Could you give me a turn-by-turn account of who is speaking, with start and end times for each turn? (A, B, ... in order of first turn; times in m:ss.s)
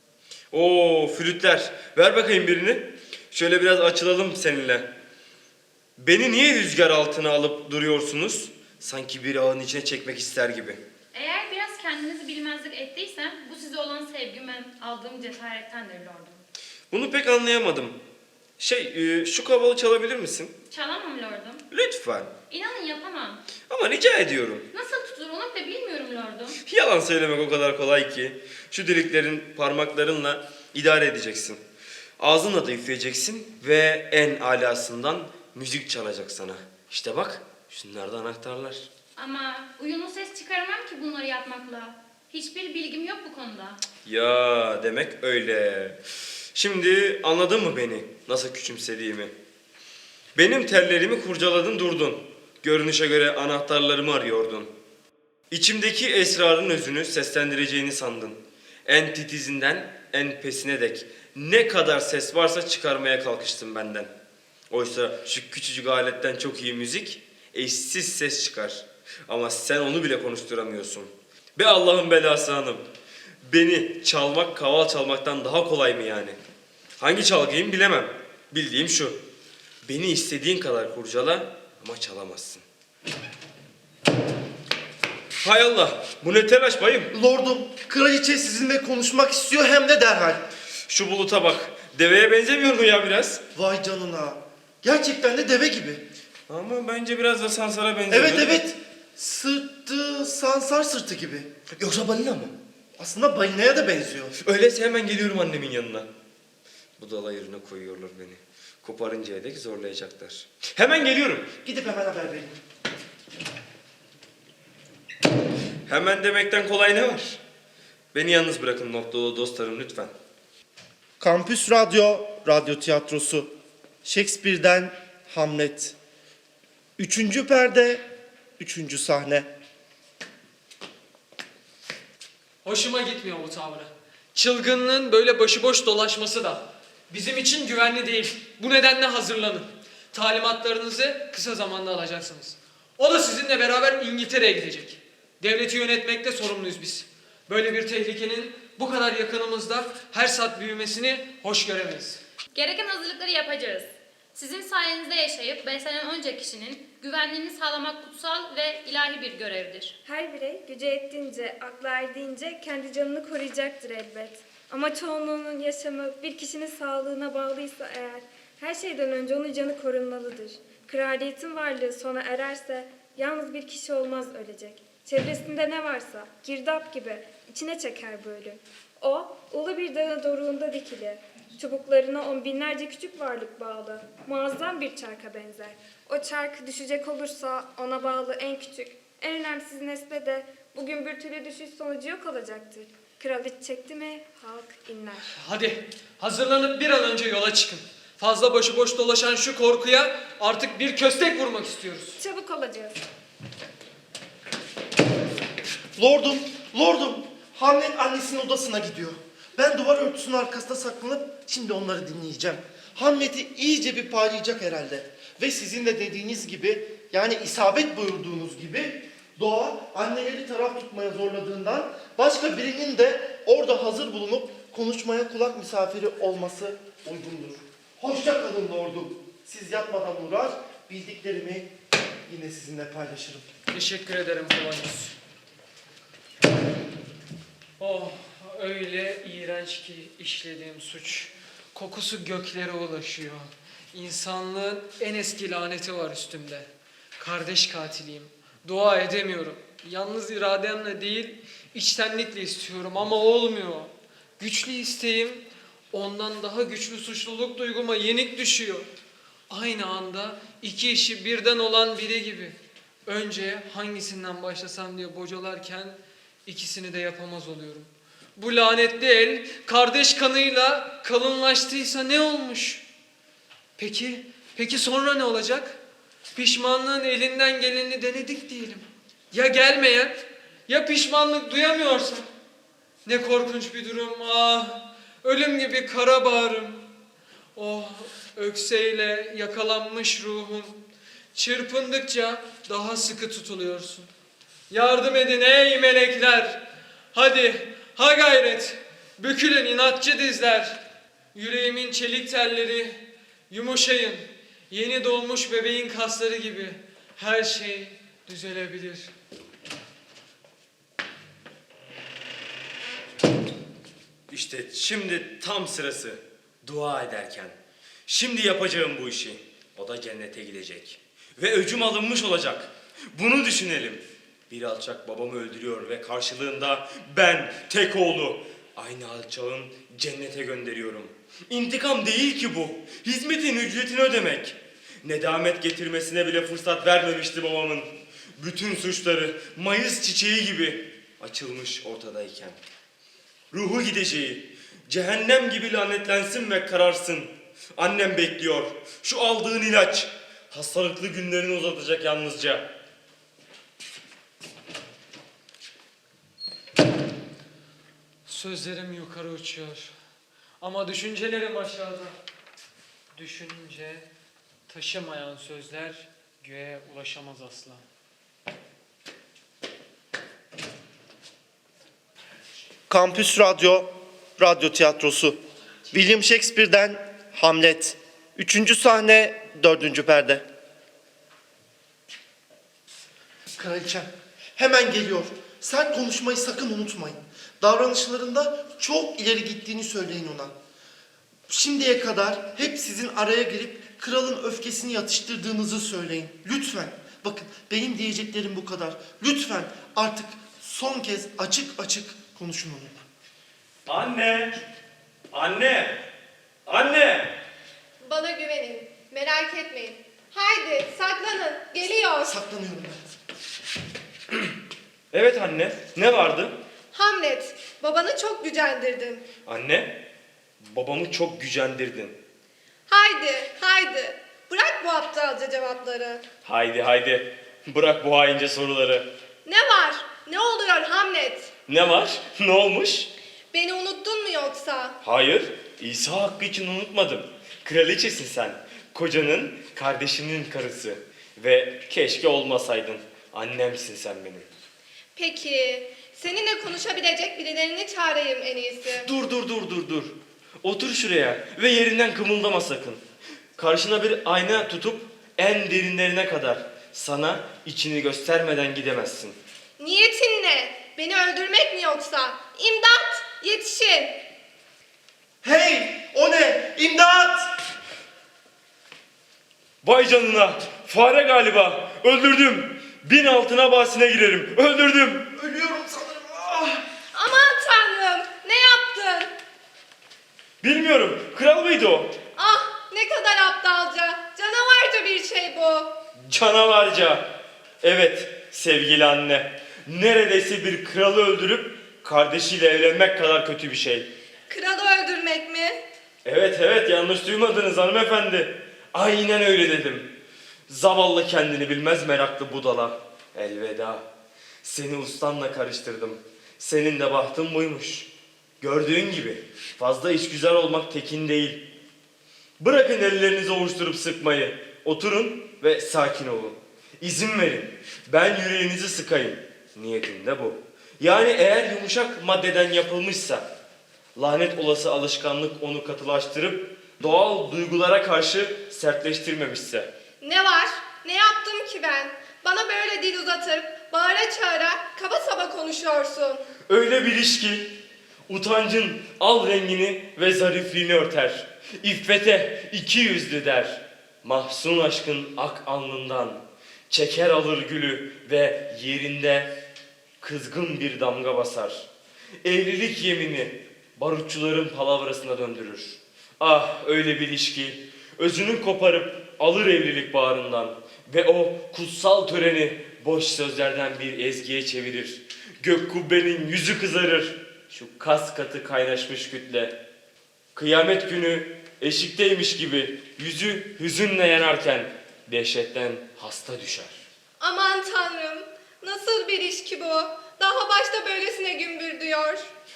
0:00.5-0:04.9 A
0:06.0-0:10.8 A
0:11.1-0:16.4 B
0:16.9-0:18.0 A
0:18.6-0:20.5 A
0:20.7-0:21.6 B
0:21.7-0:22.3 A
0:22.5-0:23.4 B
0:23.7-0:24.7 A
0:24.7-0:26.6 B
0:26.7-0:31.6 A
0:32.2-0:38.9 A
0:39.2-0:43.8 B
0:44.0-0:46.0 A
0:46.5-0:49.3 A
0:50.4-0:54.7 A
0:55.5-1:04.1 A
1:04.7-1:12.8 A
1:13.4-1:16.4 A
1:17.0-1:19.2 A
1:19.8-1:22.6 A
1:25.4-1:27.1 A
1:27.1-1:30.4 C
1:30.9-1:33.4 A
1:33.5-1:36.0 C
1:36.5-1:38.6 A
1:38.1-1:41.5 C
1:41.8-1:42.5 A
1:43.0-1:44.4 C
1:44.4-1:46.1 A
1:47.0-1:51.5 A
1:51.6-1:52.6 C
1:55.9-1:57.4 A
1:58.1-2:00.1 A
2:01.2-2:03.5 C
2:04.0-2:06.0 C
2:07.0-2:08.0 C
2:08.6-2:09.5 C
2:12.6-2:32.2 D
2:32.5-2:39.9 B
2:40.0-3:15.3 E
3:15.4-3:22.2 D
3:22.2-3:23.0 E
3:26.0-3:51.7 C
3:52.2-3:53.5 C
3:53.7-3:55.1 D
3:57.8-4:18.9 D
4:19.5-4:32.8 D
4:33.8-4:35.8 D
4:36.3-4:42.3 D
4:43.0-4:46.9 D
4:47.5-4:50.8 D
4:51.3-4:54.1 D
4:54.7-5:00.8 D
5:01.3-5:09.1 D
5:14.3-5:17.6 A
5:18.1-5:42.6 A
5:43.5-5:52.6 A
5:58.2-5:59.9 D
6:00.6-6:02.2 D
6:03.2-6:04.1 D
6:04.7-6:07.8 D
6:12.9-6:15.4 C
6:15.9-6:20.4 C
6:23.5-6:30.5 C
6:31.5-6:43.0 C
6:43.8-6:44.6 A
6:45.3-6:46.0 A
6:46.6-6:47.4 A
6:48.0-6:52.3 F
6:52.2-6:53.0 C
6:55.1-6:56.6 A
6:56.9-6:59.2 F
6:59.4-7:00.0 A
7:00.6-7:02.2 A
7:02.9-7:06.2 F
7:06.4-7:09.1 A
7:09.4-7:11.5 F
7:11.7-7:13.1 A
7:13.5-7:15.0 F
7:15.0-7:24.5 A
7:25.2-7:29.1 F
7:28.9-7:33.0 A
7:33.6-7:39.4 A
7:39.8-7:44.2 F
7:45.4-7:47.6 C
7:49.8-7:55.3 A
7:55.3-7:56.8 C
7:57.1-7:59.3 F
8:00.6-8:02.1 A
8:02.4-8:05.9 F
8:06.2-8:07.2 A
8:07.8-8:14.1 A
8:14.5-8:15.8 F
8:16.2-8:20.1 A
8:20.7-8:24.0 A
8:24.6-8:31.6 A
8:32.6-8:43.4 A
8:44.2-8:49.9 A
8:50.2-8:56.4 F
8:56.7-8:57.7 A
8:58.3-9:09.5 A
9:10.2-9:11.8 A
9:12.4-9:29.8 A
9:30.5-9:37.0 A
9:37.4-9:42.5 F